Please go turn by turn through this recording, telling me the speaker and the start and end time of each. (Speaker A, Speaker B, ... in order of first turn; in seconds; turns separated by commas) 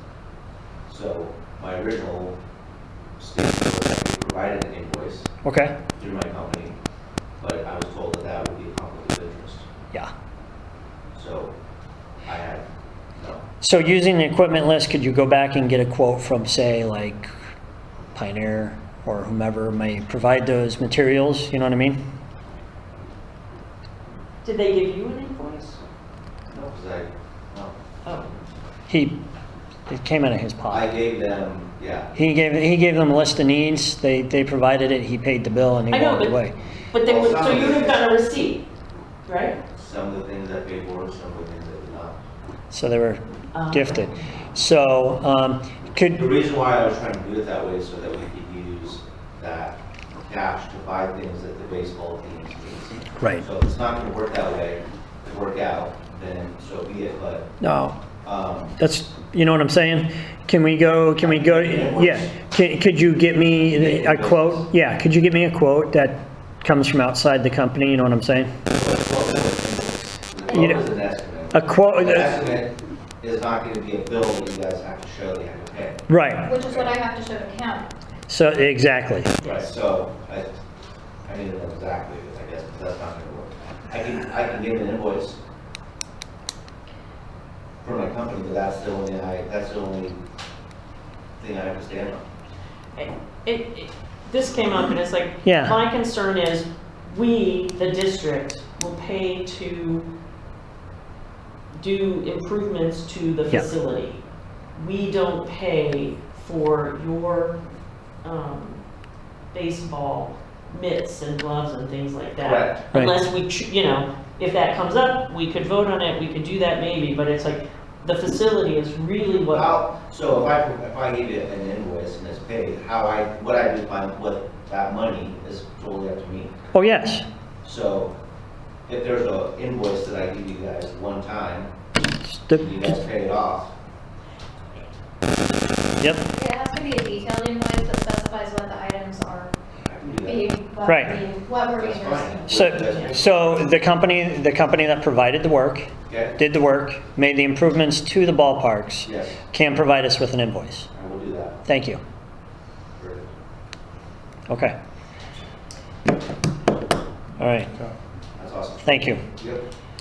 Speaker A: 0.9-2.4, Speaker A: 3.2-5.3, Speaker B: 5.4-5.8, Speaker A: 6.0-6.8, Speaker A: 7.4-9.6, Speaker A: 11.1-11.5, Speaker A: 12.2-12.6, Speaker A: 13.2-13.4, Speaker B: 13.6-17.3, Speaker B: 18.1-22.0, Speaker C: 24.4-25.8, Speaker A: 26.5-27.7, Speaker B: 28.9-29.2, Speaker B: 29.9-30.9, Speaker A: 30.7-32.1, Speaker B: 32.1-36.5, Speaker C: 35.9-36.4, Speaker C: 36.9-38.6, Speaker A: 37.0-38.0, Speaker C: 39.3-39.6, Speaker A: 39.7-42.2, Speaker B: 42.7-46.2, Speaker C: 43.5-44.4, Speaker A: 46.1-57.5, Speaker B: 53.2-53.4, Speaker B: 57.6-58.0, Speaker A: 58.2-58.8, Speaker B: 58.8-68.5, Speaker A: 61.2-62.4, Speaker A: 63.5-64.7, Speaker A: 68.7-76.9, Speaker B: 70.5-70.8, Speaker B: 71.5-72.3, Speaker B: 76.1-76.5, Speaker D: 76.5-77.9, Speaker B: 78.3-79.4, Speaker A: 79.4-80.5, Speaker A: 81.3-85.4, Speaker A: 87.8-90.2, Speaker A: 91.4-92.2, Speaker C: 93.0-100.1, Speaker B: 95.4-95.8, Speaker C: 101.8-104.2, Speaker C: 104.8-107.6, Speaker C: 108.2-108.8, Speaker C: 109.5-119.8, Speaker A: 112.4-112.8, Speaker A: 119.5-126.6, Speaker B: 126.7-127.2, Speaker A: 127.6-128.1, Speaker A: 128.9-131.7, Speaker B: 132.3-133.0, Speaker A: 132.5-133.7, Speaker B: 136.0-136.3, Speaker D: 136.3-139.5, Speaker A: 139.8-140.5, Speaker D: 140.2-142.6, Speaker B: 140.8-141.2, Speaker A: 141.8-143.6, Speaker B: 142.5-150.9, Speaker A: 146.1-146.4, Speaker A: 149.0-149.4, Speaker A: 150.9-151.6, Speaker B: 151.7-152.0, Speaker A: 153.0-153.3, Speaker B: 154.5-154.8, Speaker B: 157.4-157.7, Speaker A: 158.3-159.6, Speaker B: 158.8-159.2